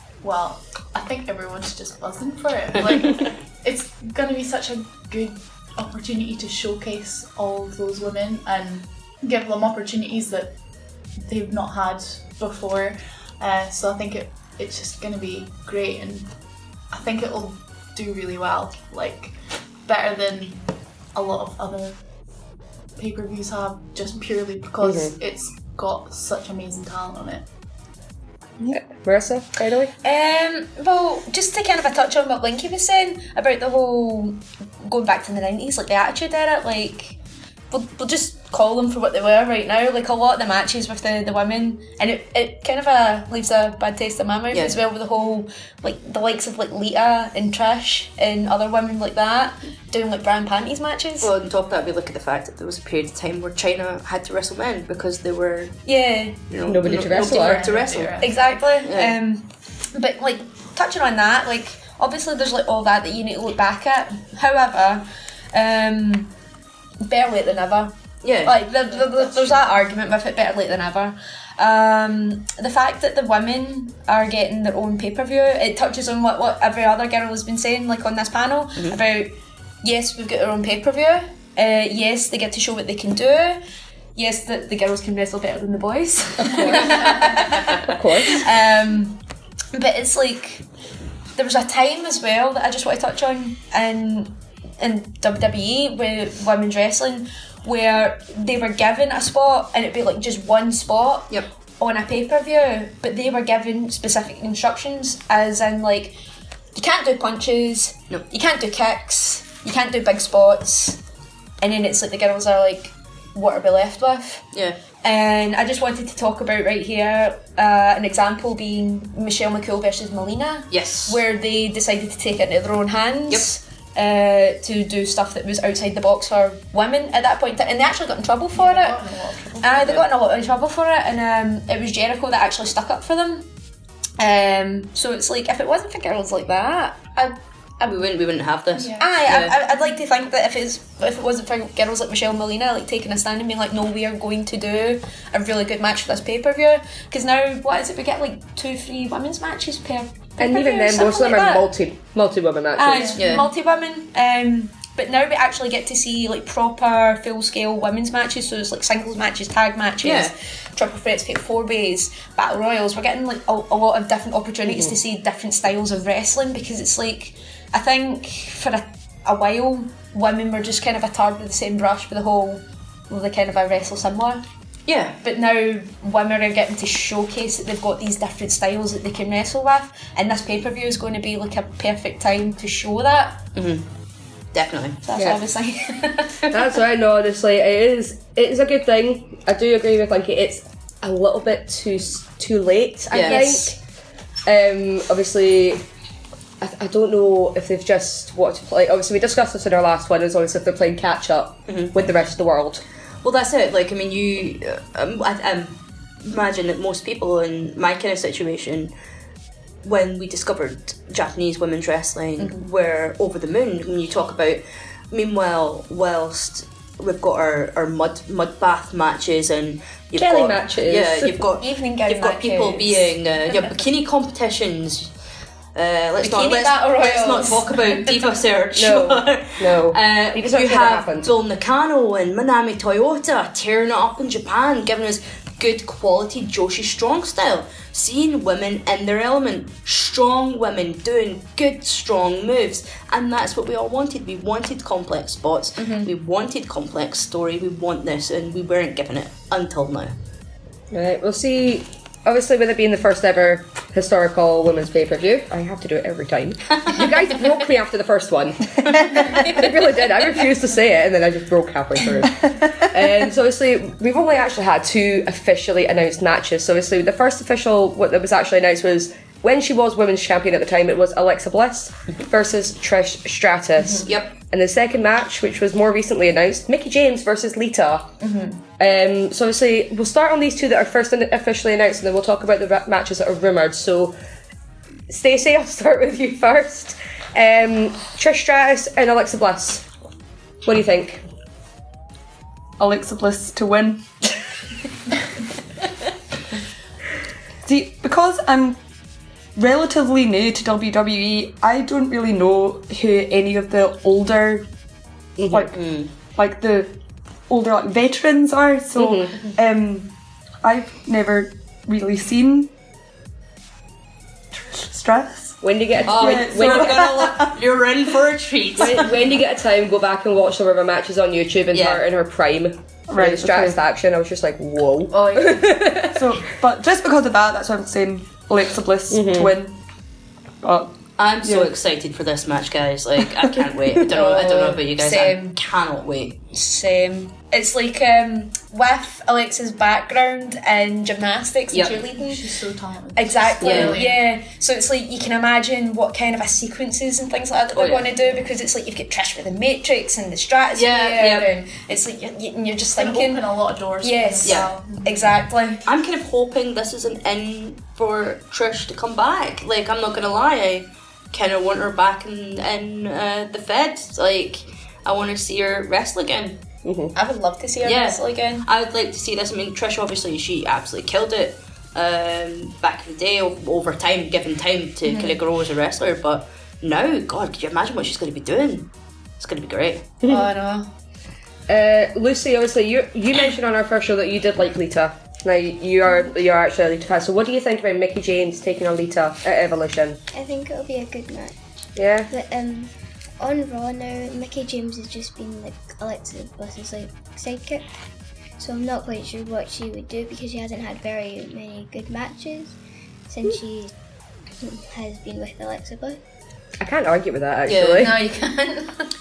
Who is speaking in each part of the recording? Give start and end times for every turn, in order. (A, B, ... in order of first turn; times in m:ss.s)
0:00.2-0:10.5 A
0:11.2-0:16.3 A
0:16.9-0:20.6 A
0:21.1-0:22.0 A
0:23.0-0:27.4 A
0:24.8-0:25.1 B
0:28.7-0:29.9 B
0:30.0-0:37.2 C
0:37.7-0:51.3 C
0:44.5-0:44.8 D
0:51.2-0:55.8 D
0:55.8-0:56.4 C
0:56.5-0:59.2 D
0:56.6-0:57.7 B
0:57.1-0:58.5 A
0:58.2-1:06.3 C
1:07.0-1:23.6 C
1:08.2-1:08.6 D
1:09.1-1:09.6 A
1:24.2-1:29.2 C
1:26.5-1:27.1 B
1:27.8-1:28.4 B
1:29.7-1:30.6 C
1:31.4-1:46.2 C
1:46.7-1:51.0 C
1:51.6-1:54.4 C
1:55.0-2:09.0 C
2:00.7-2:01.2 D
2:08.5-2:10.0 A
2:09.6-2:13.5 C
2:14.2-2:18.0 C
2:17.8-2:19.6 D
2:18.7-2:19.1 A
2:19.0-2:31.7 C
2:30.4-2:33.2 B
2:32.8-2:54.4 C
2:33.2-2:33.5 D
2:40.0-2:40.3 D
2:44.7-2:44.9 B
2:54.9-2:55.2 D
2:55.2-3:03.4 C
3:03.5-3:03.8 D
3:04.5-3:05.0 D
3:05.0-3:06.6 C
3:06.5-3:13.8 B
3:13.1-3:13.6 D
3:13.2-3:13.7 C
3:14.4-3:15.8 B
3:16.6-3:22.8 B
3:21.7-3:21.9 D
3:23.2-3:28.9 D
3:29.8-3:45.1 D
3:40.2-3:41.4 B
3:41.6-3:43.8 C
3:45.7-4:10.1 D
3:46.2-3:48.0 C
3:48.7-3:51.3 B
4:05.8-4:06.1 C
4:10.9-4:38.1 B
4:33.8-4:34.1 C
4:34.0-4:34.3 D
4:38.2-4:38.6 C
4:38.8-4:44.2 B
4:45.1-4:49.8 B
4:50.6-4:51.2 B
4:52.8-4:54.0 E
4:57.6-4:58.8 E
4:59.6-5:04.6 E
5:05.4-5:05.7 B
5:05.5-5:05.8 E
5:05.7-5:06.1 D
5:06.4-5:06.9 E
5:07.5-5:12.7 E
5:08.9-5:09.4 B
5:14.5-5:17.5 E
5:15.6-5:17.3 B
5:16.0-5:19.2 D
5:18.8-5:26.3 B
5:21.7-5:22.0 D
5:23.1-5:23.8 E
5:25.1-5:25.7 C
5:26.0-5:29.7 E
5:29.1-5:29.5 B
5:30.6-5:31.7 E
5:31.2-5:36.4 D
5:34.1-5:35.6 C
5:36.5-5:42.4 C
5:41.7-5:42.0 D
5:42.1-5:44.2 A
5:43.2-5:53.4 C
5:43.6-5:44.0 D
5:47.7-5:48.1 D
5:50.8-5:51.6 D
5:52.9-5:55.3 A
5:54.0-5:55.8 C
5:55.8-6:06.6 D
6:06.8-6:07.1 B
6:07.1-6:08.6 C
6:07.8-6:20.1 D
6:15.0-6:15.4 C
6:20.2-6:20.9 C
6:21.7-6:30.2 B
6:30.3-6:31.5 F
6:32.0-6:32.3 B
6:32.3-6:37.9 F
6:38.6-6:42.8 F
6:43.3-6:43.9 F
6:44.6-6:46.2 F
6:46.8-6:48.2 B
6:47.7-6:48.1 D
6:48.0-6:49.1 C